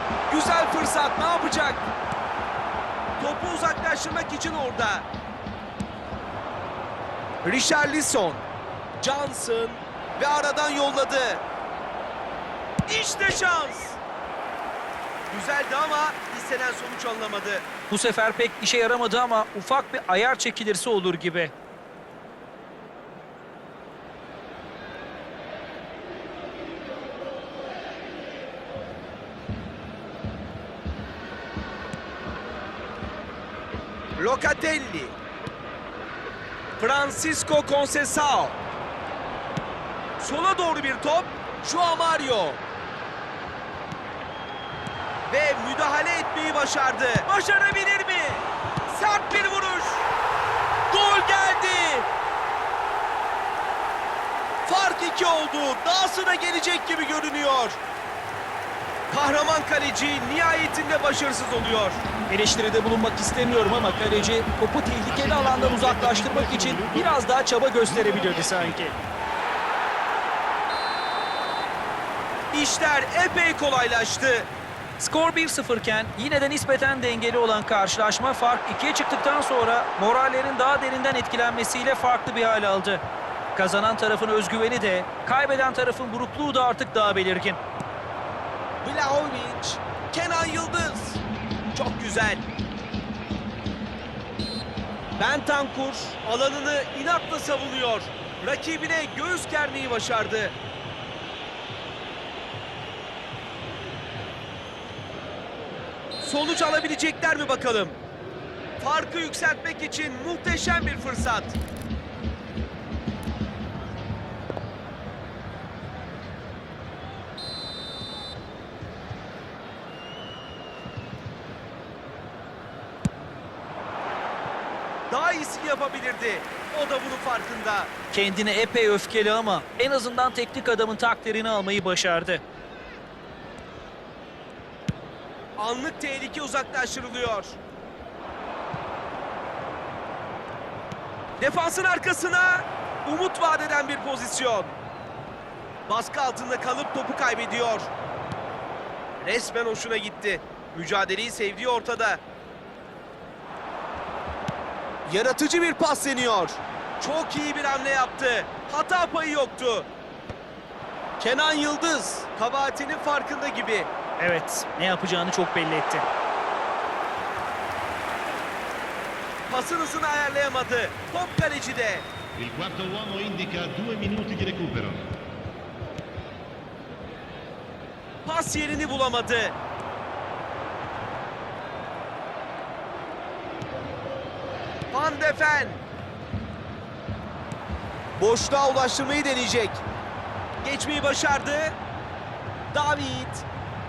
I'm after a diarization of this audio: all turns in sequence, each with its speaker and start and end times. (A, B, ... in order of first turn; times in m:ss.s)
0:00.3-0:01.8 A
0:03.2-0:05.0 A
0:07.4-0:08.4 A
0:09.0-0:11.4 A
0:12.8-0:14.0 A
0:15.3-0:17.6 A
0:17.9-0:21.5 B
0:34.2-0:35.1 A
0:36.8-0:38.6 A
0:40.2-0:42.6 A
0:45.3-0:50.0 A
0:50.9-0:52.1 A
0:54.6-0:57.8 A
0:59.1-1:02.0 A
1:02.3-1:09.0 B
1:03.9-1:04.3 C
1:05.0-1:07.2 C
1:07.8-1:09.0 C
1:12.5-1:14.5 A
1:15.0-1:23.0 B
1:23.5-1:27.6 B
1:28.8-1:31.2 A
1:31.7-1:32.4 A
1:35.2-1:40.6 A
1:46.2-1:48.0 A
1:48.8-1:51.6 A
2:05.1-2:07.9 A
2:08.1-2:12.4 B
2:15.6-2:17.6 A
2:21.4-2:24.7 A
2:25.9-2:27.9 A
2:29.2-2:32.2 A
2:35.0-2:39.9 A
2:41.2-2:43.9 A
2:44.2-2:46.0 B
2:49.5-2:52.1 A
2:52.4-2:55.1 C
2:58.2-2:59.6 A
3:04.9-3:05.8 A
3:08.2-3:09.8 A
3:10.6-3:11.8 A
3:12.7-3:13.4 A